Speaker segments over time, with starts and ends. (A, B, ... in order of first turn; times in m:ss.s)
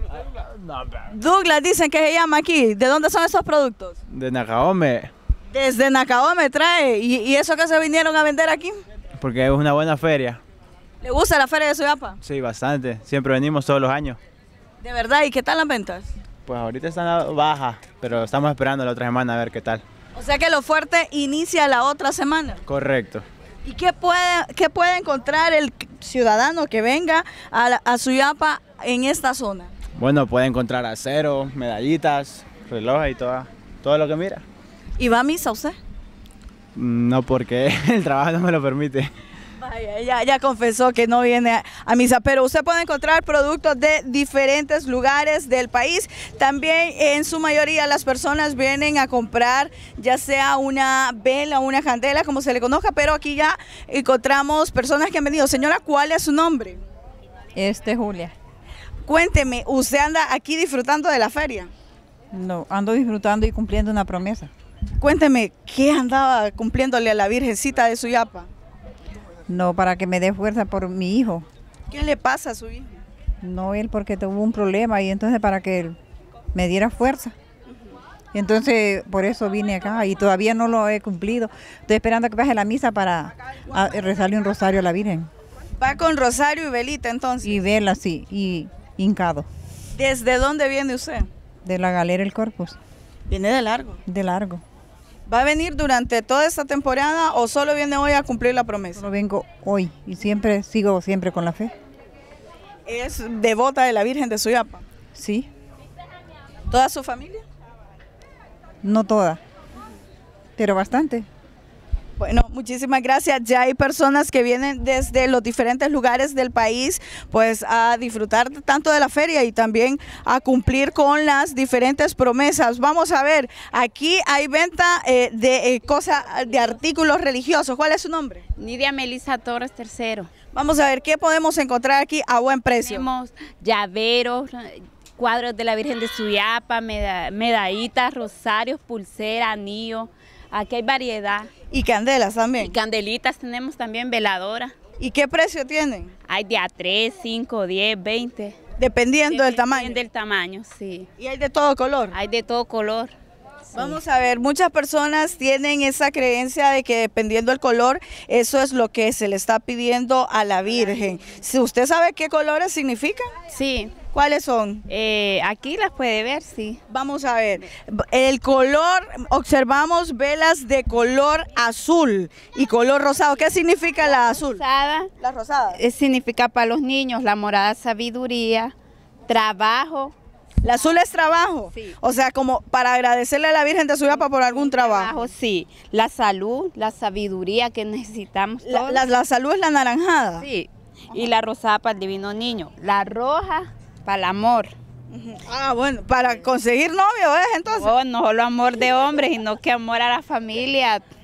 0:00.6-0:01.0 A
0:01.1-0:04.0 B
0:04.1-0:05.1 A
0:05.5-0:08.8 B
0:09.2-0:10.4 A
0:11.0-0:12.2 B
0:12.2-0:14.2 A
0:14.8-0:16.1 B
0:16.5-0:19.8 A
0:20.2-0:22.6 B
0:22.7-0:23.2 A
0:23.6-0:29.7 B
0:30.0-0:34.4 A
0:35.0-0:35.8 B
0:36.8-0:39.1 A
0:39.6-0:56.8 B
0:57.6-0:58.3 C
0:59.0-1:01.7 B
1:02.3-1:04.5 C
1:05.0-1:08.5 B
1:09.5-1:11.5 C
1:11.9-1:13.0 B
1:13.4-1:16.0 C
1:16.5-1:17.3 C
1:18.3-1:25.3 C
1:25.8-1:27.6 B
1:27.4-1:29.5 C
1:29.9-1:31.3 B
1:31.6-1:32.8 C
1:33.3-1:34.0 B
1:34.1-1:34.6 C
1:35.3-1:39.1 B
1:39.0-1:41.7 C
1:42.9-1:44.8 B
1:45.2-1:45.5 C
1:46.7-1:47.4 B
1:48.8-1:49.4 C
1:50.6-1:51.3 C
1:52.2-2:08.4 B
2:08.6-2:10.3 D
2:10.5-2:13.1 B
2:12.8-2:21.5 D
2:21.7-2:22.8 B
2:22.6-2:24.7 D
2:25.0-2:26.1 B
2:26.3-2:28.6 D
2:28.8-2:30.0 B
2:29.3-2:31.1 D
2:31.2-2:32.2 B
2:32.1-2:33.1 D
2:33.7-2:34.0 D
2:33.8-2:43.3 B
2:43.5-2:43.9 D
2:44.1-2:44.8 B
2:44.9-2:46.8 D
2:46.9-2:54.6 B
2:54.0-2:55.1 D
2:55.2-2:55.8 B
2:55.7-2:58.7 D
2:59.3-3:00.1 D
3:00.6-3:05.1 B
3:04.2-3:09.0 D
3:08.6-3:10.5 B
3:10.4-3:14.7 D
3:15.1-3:17.9 B
3:17.7-3:21.1 D